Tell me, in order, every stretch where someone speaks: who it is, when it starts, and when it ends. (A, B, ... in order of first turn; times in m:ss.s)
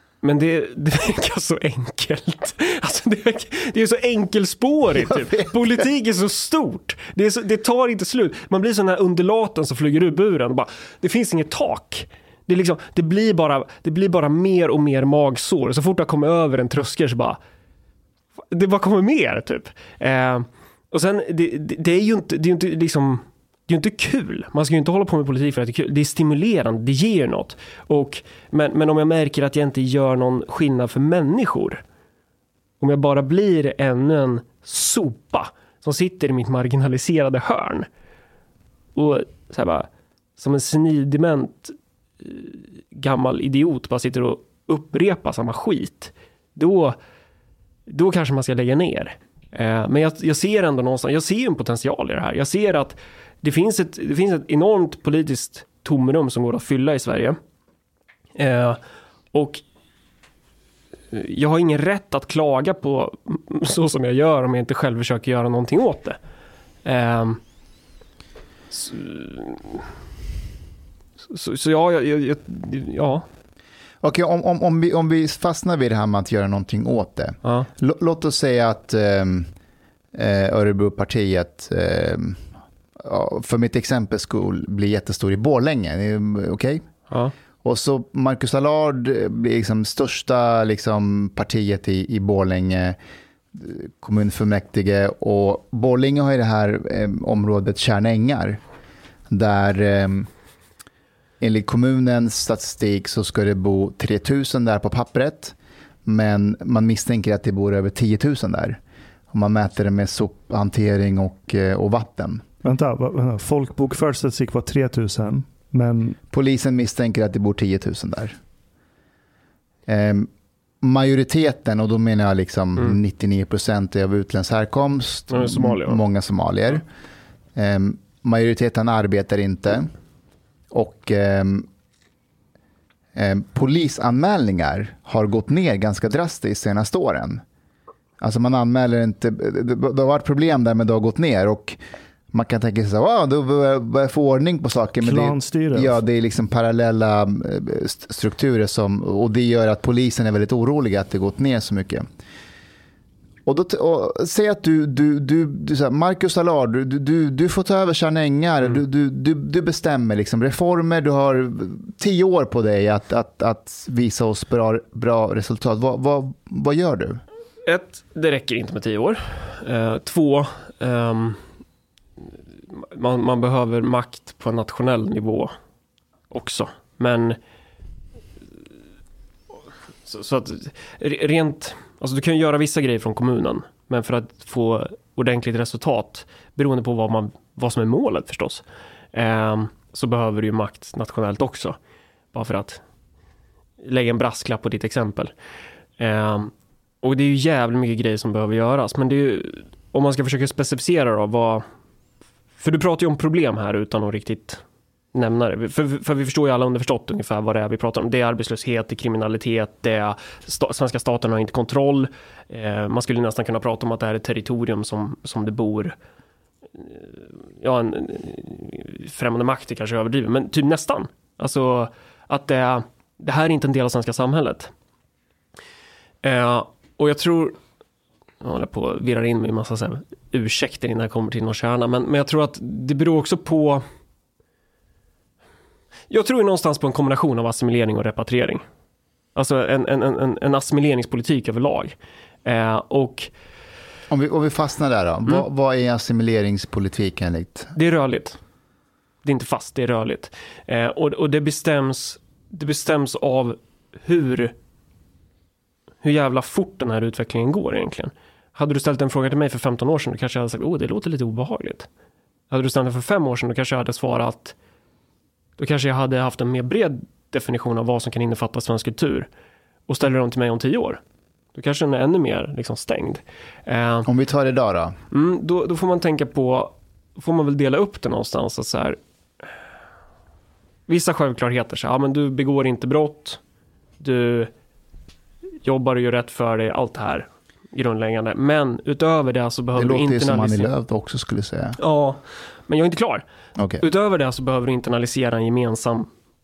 0:00.2-0:17.4 A
0:04.9-0:05.8 B
0:18.5-0:31.8 A
0:32.8-0:37.9 A
0:39.0-0:47.0 A
0:47.9-0:57.4 A
0:58.4-0:58.8 A
0:59.3-0:59.6 A
1:01.1-1:06.2 A
1:06.8-1:07.4 A
1:08.7-1:09.9 A
1:11.3-1:13.2 A
1:14.0-1:19.5 B
1:17.4-1:17.7 A
1:20.1-1:26.9 B
1:27.6-1:33.0 B
1:33.5-1:38.6 B
1:39.3-1:40.3 B
1:41.4-1:48.8 B
1:49.3-1:52.5 B
1:52.6-1:56.2 C
1:56.3-1:58.4 B
1:59.9-2:00.3 B
2:00.8-2:06.8 B
2:05.3-2:06.0 A
2:07.6-2:09.9 B
2:10.7-2:11.7 B
2:13.1-2:17.4 B
2:18.2-2:21.8 B
2:22.3-2:32.1 B
2:25.0-2:26.0 C
2:33.5-2:47.2 B
2:47.7-2:51.4 A
2:52.8-2:55.5 A
2:56.3-2:57.4 A
3:00.1-3:08.6 A
3:09.1-3:11.8 A
3:12.3-3:12.8 A
3:13.8-3:15.3 A
3:16.0-3:21.6 A
3:22.6-3:24.6 A
3:25.1-3:36.0 A
3:36.8-3:37.1 A
3:37.6-3:44.7 A
3:46.2-3:47.6 A
3:48.4-3:53.8 A
3:56.1-3:58.6 A
3:59.4-4:01.9 A
4:02.4-4:03.3 A
4:04.1-4:07.7 B
4:07.8-4:08.4 A
4:09.2-4:14.5 A
4:16.0-4:21.9 A
4:22.5-4:24.6 A
4:25.6-4:29.3 A
4:29.9-4:31.0 A
4:31.6-4:34.1 A
4:34.0-4:35.0 B
4:35.1-4:39.0 A
4:40.9-4:43.4 A
4:44.0-4:44.5 A
4:45.6-4:50.7 A
4:49.8-4:51.8 B
4:51.8-4:53.2 A
4:53.6-4:53.8 B
4:53.8-4:56.1 A